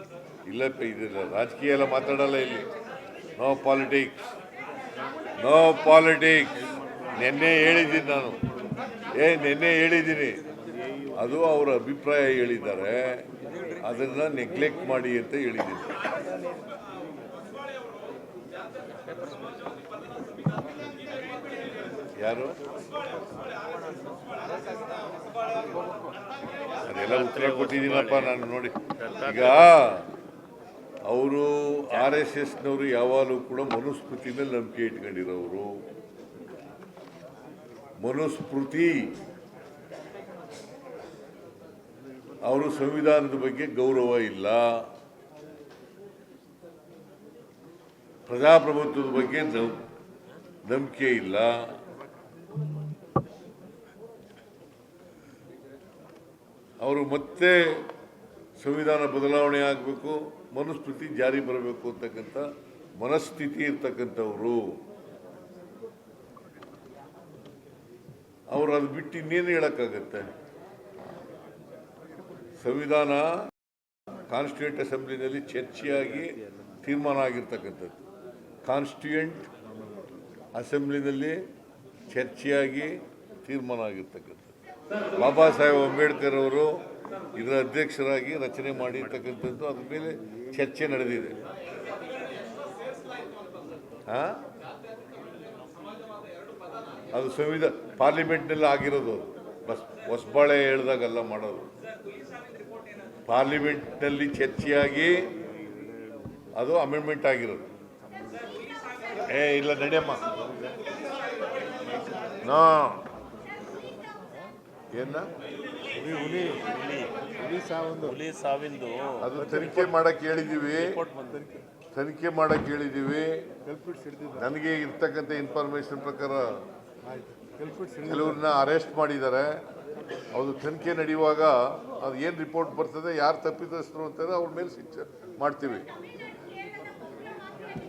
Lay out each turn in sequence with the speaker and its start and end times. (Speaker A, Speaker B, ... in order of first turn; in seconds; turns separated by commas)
Speaker A: 0.5-2.7, Speaker A: 3.4-4.3, Speaker A: 5.4-8.4, Speaker A: 9.1-10.4, Speaker A: 11.1-16.0, Speaker A: 22.2-22.6, Speaker A: 26.8-30.1, Speaker B: 26.9-28.4, Speaker B: 29.0-29.9, Speaker A: 31.0-35.8, Speaker B: 31.9-32.3, Speaker A: 38.0-39.2, Speaker A: 42.4-44.9, Speaker A: 48.3-49.8, Speaker A: 50.6-51.7, Speaker A: 56.8-57.9, Speaker A: 58.5-64.8, Speaker A: 68.5-70.3, Speaker A: 72.6-73.5, Speaker A: 74.3-78.0, Speaker A: 78.6-79.5, Speaker A: 80.5-81.4, Speaker A: 82.1-84.6, Speaker A: 85.2-86.8, Speaker A: 87.3-91.4, Speaker A: 94.1-94.4, Speaker A: 97.1-101.7, Speaker A: 103.2-105.3, Speaker A: 106.5-107.7, Speaker A: 109.3-110.2, Speaker A: 112.4-113.0, Speaker A: 114.9-115.3, Speaker C: 116.0-116.6, Speaker B: 116.0-117.3, Speaker C: 117.4-118.1, Speaker B: 117.9-120.0, Speaker A: 119.2-121.0, Speaker B: 120.7-121.6, Speaker C: 121.4-121.6, Speaker A: 121.9-123.5, Speaker C: 123.7-124.4, Speaker A: 124.3-126.6, Speaker C: 127.1-128.4, Speaker A: 128.0-129.6, Speaker A: 130.3-135.8